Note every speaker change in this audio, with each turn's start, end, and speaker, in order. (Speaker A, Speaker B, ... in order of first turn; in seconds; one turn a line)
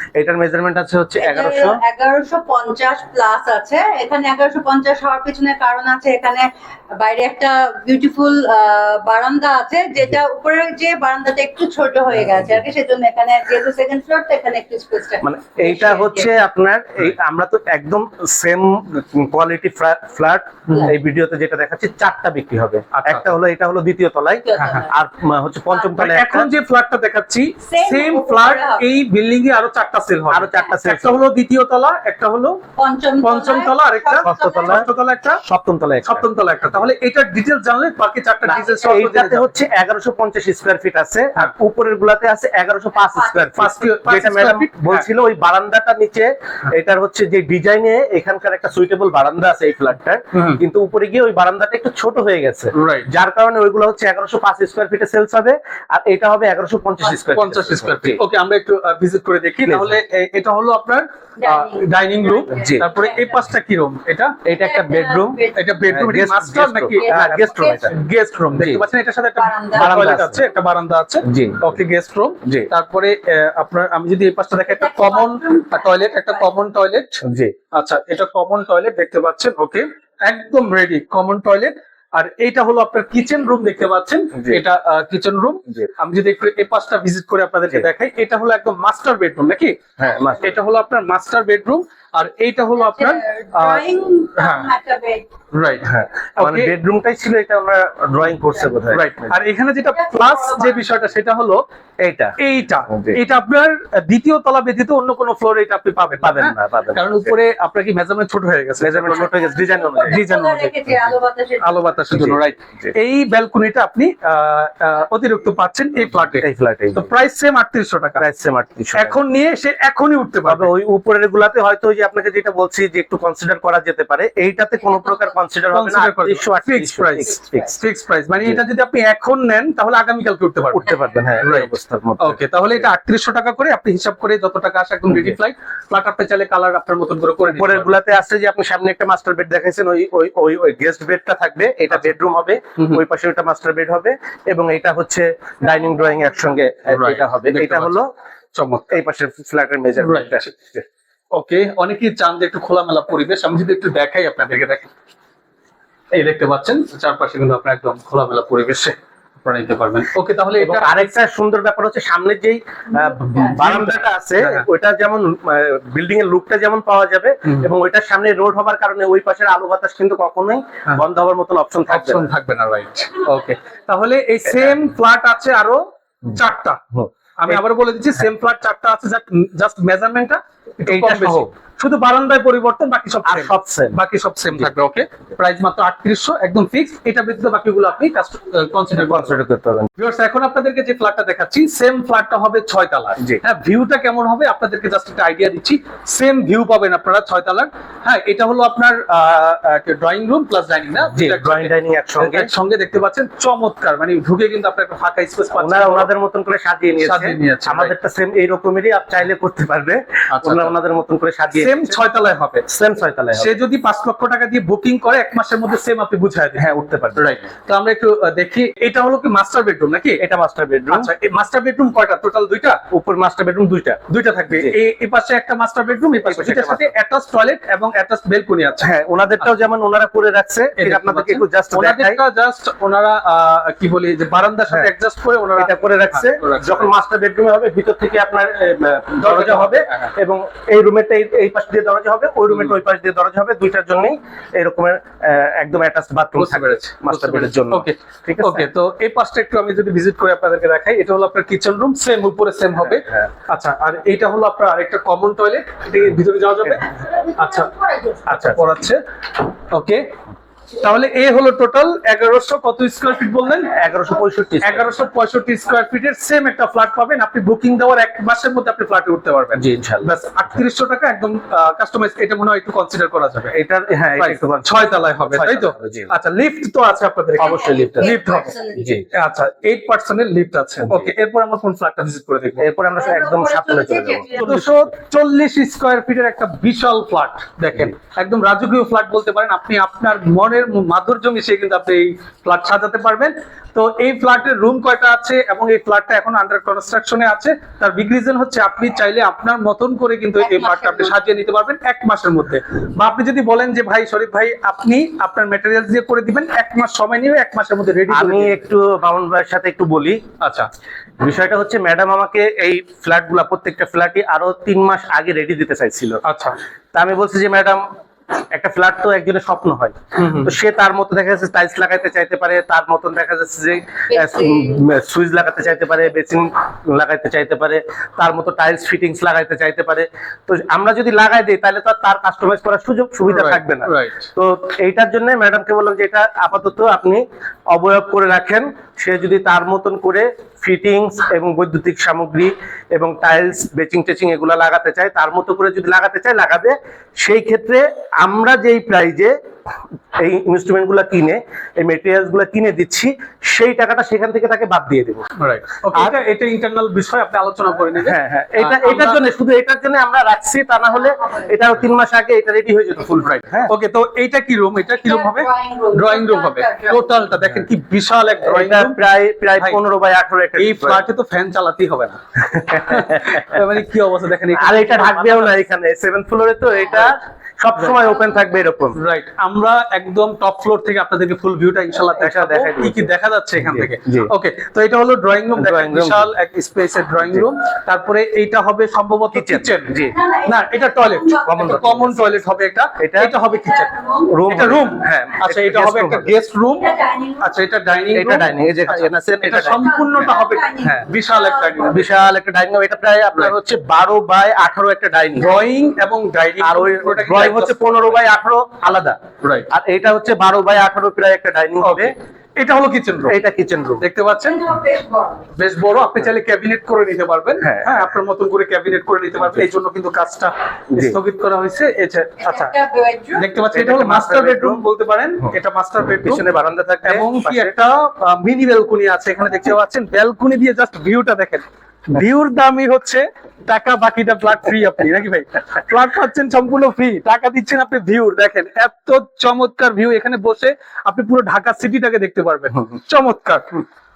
Speaker A: 0.2-1.8
Speaker B: 1.2-16.3
Speaker A: 15.2-26.5
Speaker C: 22.9-23.3
Speaker B: 24.4-24.9
Speaker C: 24.6-24.8
Speaker C: 25.8-32.6
Speaker B: 27.6-28.8
Speaker A: 30.3-31.2
Speaker B: 32.8-34.9
Speaker C: 33.2-35.4
Speaker A: 34.2-34.9
Speaker A: 35.4-36.3
Speaker C: 36.0-39.5
Speaker B: 38.5-38.8
Speaker A: 38.8-58.2
Speaker B: 43.1-43.7
Speaker C: 43.6-45.1
Speaker C: 50.3-50.6
Speaker C: 52.7-53.1
Speaker C: 57.3-64.4
Speaker A: 59.7-60.0
Speaker B: 61.4-63.2
Speaker A: 62.5-62.9
Speaker A: 64.5-67.9
Speaker B: 64.6-65.7
Speaker C: 65.5-77.2
Speaker B: 67.0-67.9
Speaker A: 68.5-68.8
Speaker B: 69.4-70.0
Speaker A: 69.8-70.4
Speaker A: 71.2-71.8
Speaker A: 72.5-72.7
Speaker B: 74.7-76.5
Speaker A: 77.2-77.5
Speaker C: 77.7-89.8
Speaker A: 84.3-84.6
Speaker A: 90.0-90.6
Speaker C: 90.4-94.7
Speaker B: 92.8-95.3
Speaker C: 95.5-96.7
Speaker A: 95.8-99.4
Speaker C: 98.9-101.6
Speaker B: 99.9-100.9
Speaker A: 102.0-102.4
Speaker C: 102.4-109.3
Speaker A: 102.9-103.2
Speaker A: 106.2-107.3
Speaker A: 108.8-110.3
Speaker B: 109.4-111.9
Speaker C: 110.0-110.8
Speaker C: 111.6-118.3
Speaker A: 112.1-112.9
Speaker A: 116.3-117.1
Speaker A: 118.2-119.2
Speaker C: 118.9-120.7
Speaker A: 120.5-127.8
Speaker C: 125.7-130.8
Speaker A: 130.7-132.9
Speaker C: 131.4-137.9
Speaker A: 135.1-135.4
Speaker A: 137.5-148.1
Speaker C: 146.9-148.0
Speaker C: 148.6-148.9
Speaker A: 148.9-150.8
Speaker C: 150.0-150.5
Speaker C: 151.3-154.9
Speaker C: 156.1-161.1
Speaker A: 160.6-172.3
Speaker C: 163.3-164.7
Speaker C: 171.9-176.8
Speaker A: 176.9-177.6
Speaker C: 177.4-189.4
Speaker A: 180.8-181.5
Speaker A: 183.2-184.0
Speaker A: 189.0-189.9
Speaker C: 190.0-206.1
Speaker A: 201.1-202.5
Speaker A: 205.5-212.0
Speaker C: 207.0-207.9
Speaker C: 210.3-210.7
Speaker C: 211.5-212.7
Speaker A: 212.7-213.6
Speaker C: 213.3-216.7
Speaker A: 216.6-217.3
Speaker C: 217.2-220.2
Speaker A: 220.2-221.1
Speaker C: 220.9-222.8
Speaker A: 222.9-224.8
Speaker C: 224.1-228.9
Speaker A: 226.2-226.9
Speaker A: 228.8-232.2
Speaker C: 230.8-236.9
Speaker A: 235.6-248.7
Speaker C: 239.2-240.1
Speaker C: 242.5-242.8
Speaker C: 246.4-257.7
Speaker A: 252.8-253.3
Speaker B: 257.0-258.2
Speaker C: 258.3-259.0
Speaker A: 258.3-258.7
Speaker C: 259.7-260.1
Speaker C: 260.8-263.7
Speaker A: 263.6-265.1
Speaker C: 264.6-273.5
Speaker A: 269.6-270.1
Speaker A: 273.5-276.1
Speaker C: 274.2-278.5
Speaker A: 277.4-278.2
Speaker B: 277.4-279.0
Speaker A: 278.8-279.1
Speaker C: 279.1-282.7
Speaker A: 280.8-281.1
Speaker A: 282.6-284.9
Speaker B: 283.0-284.6
Speaker C: 284.4-308.6
Speaker B: 300.4-301.1
Speaker A: 308.1-310.2
Speaker C: 310.4-310.7
Speaker A: 311.2-316.2
Speaker C: 316.2-316.6
Speaker A: 316.9-317.8
Speaker A: 318.5-349.4
Speaker C: 320.2-320.5
Speaker B: 324.1-324.8
Speaker C: 333.3-334.3
Speaker A: 350.1-355.3
Speaker C: 355.4-359.2
Speaker A: 357.9-363.7
Speaker B: 360.9-361.5
Speaker C: 363.2-368.9
Speaker B: 365.0-367.3
Speaker A: 368.4-371.0
Speaker C: 370.6-372.2
Speaker A: 372.4-373.6
Speaker C: 372.9-375.6
Speaker A: 374.5-379.0
Speaker C: 378.9-393.9
Speaker A: 382.2-384.3
Speaker A: 385.6-386.3
Speaker A: 389.3-390.2
Speaker B: 390.1-391.8
Speaker A: 391.5-393.4
Speaker B: 393.5-394.4
Speaker A: 394.3-396.3
Speaker C: 394.5-402.1
Speaker B: 396.8-397.5
Speaker A: 398.1-399.9
Speaker B: 399.6-402.0
Speaker A: 401.9-405.6
Speaker C: 405.4-408.3
Speaker A: 406.6-412.1
Speaker C: 409.4-409.7
Speaker C: 411.8-413.4
Speaker A: 413.3-414.1
Speaker C: 414.0-414.6
Speaker B: 414.4-415.5
Speaker C: 415.6-422.7
Speaker A: 417.6-418.1
Speaker A: 420.9-421.2
Speaker B: 422.4-423.5
Speaker C: 423.4-426.4
Speaker A: 423.7-424.8
Speaker A: 426.2-427.8
Speaker C: 427.0-443.9